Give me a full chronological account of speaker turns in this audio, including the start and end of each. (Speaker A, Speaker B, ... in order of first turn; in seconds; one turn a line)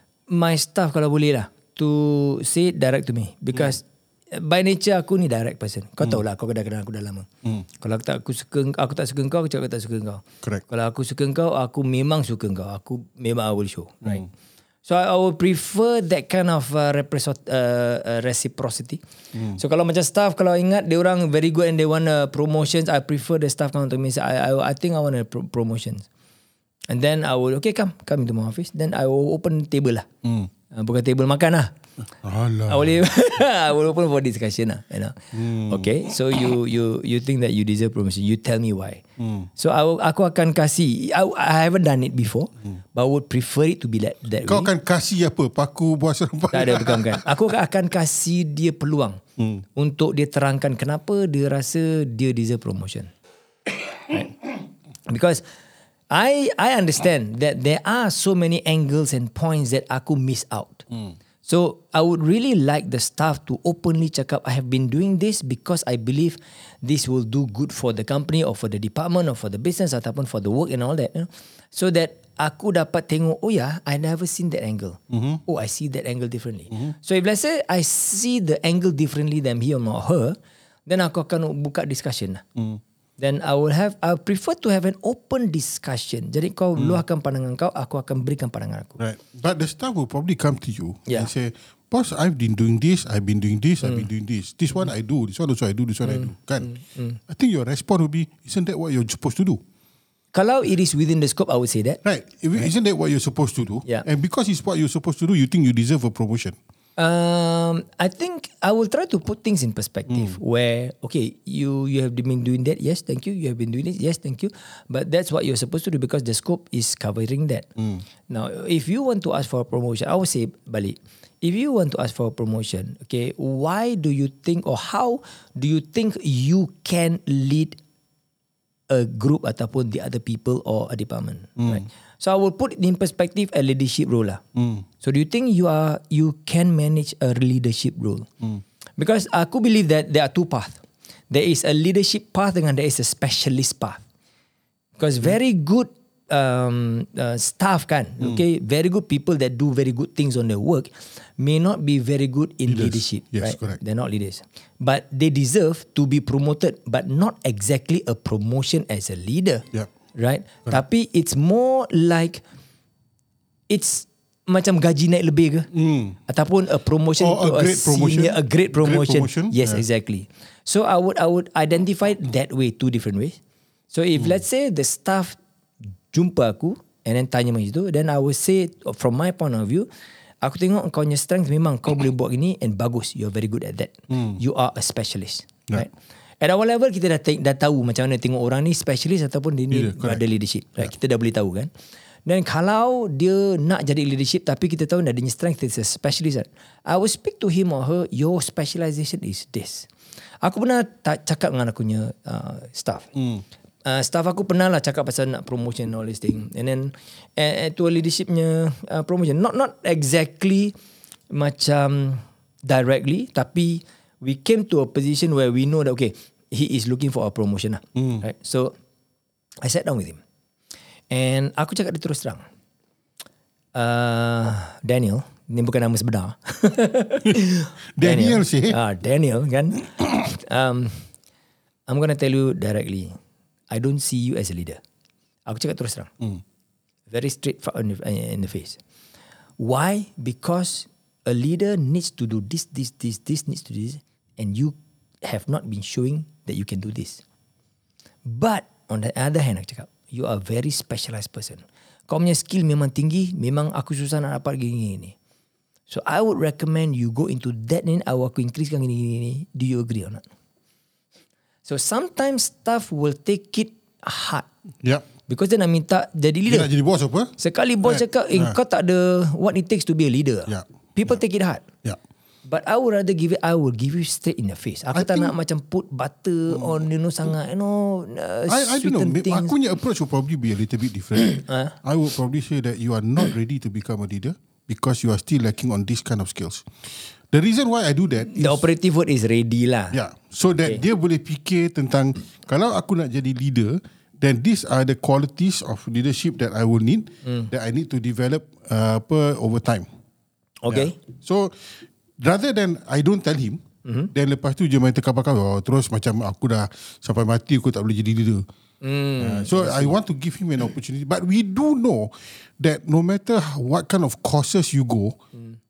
Speaker A: 0.3-14.3
Speaker A: 14.8-19.0
Speaker A: 19.6-26.1
Speaker A: 26.9-30.1
Speaker B: 30.2-30.5
Speaker A: 30.7-31.7
Speaker B: 32.2-33.1
Speaker A: 32.7-39.0
Speaker B: 35.3-36.5
Speaker B: 39.2-39.5
Speaker A: 39.6-44.7
Speaker B: 44.5-47.3
Speaker A: 46.5-49.2
Speaker B: 49.4-49.6
Speaker A: 49.8-53.1
Speaker A: 55.1-55.5
Speaker A: 56.1-60.9
Speaker A: 61.4-82.4
Speaker B: 75.1-75.4
Speaker B: 82.6-82.8
Speaker A: 83.2-89.0
Speaker B: 86.8-87.0
Speaker B: 89.0-96.7
Speaker A: 96.1-97.2
Speaker B: 97.3-99.6
Speaker A: 100.3-102.0
Speaker B: 102.0-106.6
Speaker A: 107.0-117.7
Speaker B: 110.1-110.4
Speaker B: 117.8-118.0
Speaker A: 118.3-127.8
Speaker A: 128.9-134.4
Speaker B: 131.6-131.8
Speaker B: 134.6-134.9
Speaker A: 135.0-138.3
Speaker A: 139.0-144.0
Speaker A: 145.0-162.4
Speaker B: 152.7-153.8
Speaker A: 163.7-165.7
Speaker B: 165.7-166.2
Speaker A: 166.3-173.4
Speaker B: 167.2-169.8
Speaker A: 173.9-175.4
Speaker A: 176.1-179.9
Speaker A: 180.4-185.9
Speaker B: 184.1-184.4
Speaker A: 186.4-191.7
Speaker B: 189.7-190.2
Speaker A: 192.3-199.9
Speaker A: 200.4-203.1
Speaker B: 203.1-203.4
Speaker A: 203.8-210.8
Speaker A: 211.3-218.8
Speaker B: 218.0-218.2
Speaker A: 219.6-220.2
Speaker A: 221.1-222.4
Speaker A: 223.8-231.0
Speaker B: 228.0-228.8
Speaker A: 231.9-233.2
Speaker A: 233.7-234.8
Speaker A: 235.5-236.1
Speaker A: 237.1-238.8
Speaker A: 239.6-247.2
Speaker A: 248.2-255.1
Speaker A: 255.9-260.2
Speaker A: 261.6-264.5
Speaker A: 265.3-266.7
Speaker B: 266.5-268.6
Speaker A: 267.4-271.6
Speaker B: 270.5-271.1
Speaker A: 272.5-279.6
Speaker B: 274.9-275.3
Speaker B: 276.5-276.8
Speaker B: 278.5-286.7
Speaker A: 281.3-281.7
Speaker B: 287.3-288.6
Speaker A: 288.3-290.0
Speaker B: 289.9-299.9
Speaker A: 297.2-297.5
Speaker A: 300.6-301.0
Speaker B: 300.7-301.6
Speaker B: 302.2-303.6
Speaker A: 303.9-304.1
Speaker B: 304.1-308.4
Speaker A: 308.8-310.0
Speaker B: 309.2-315.2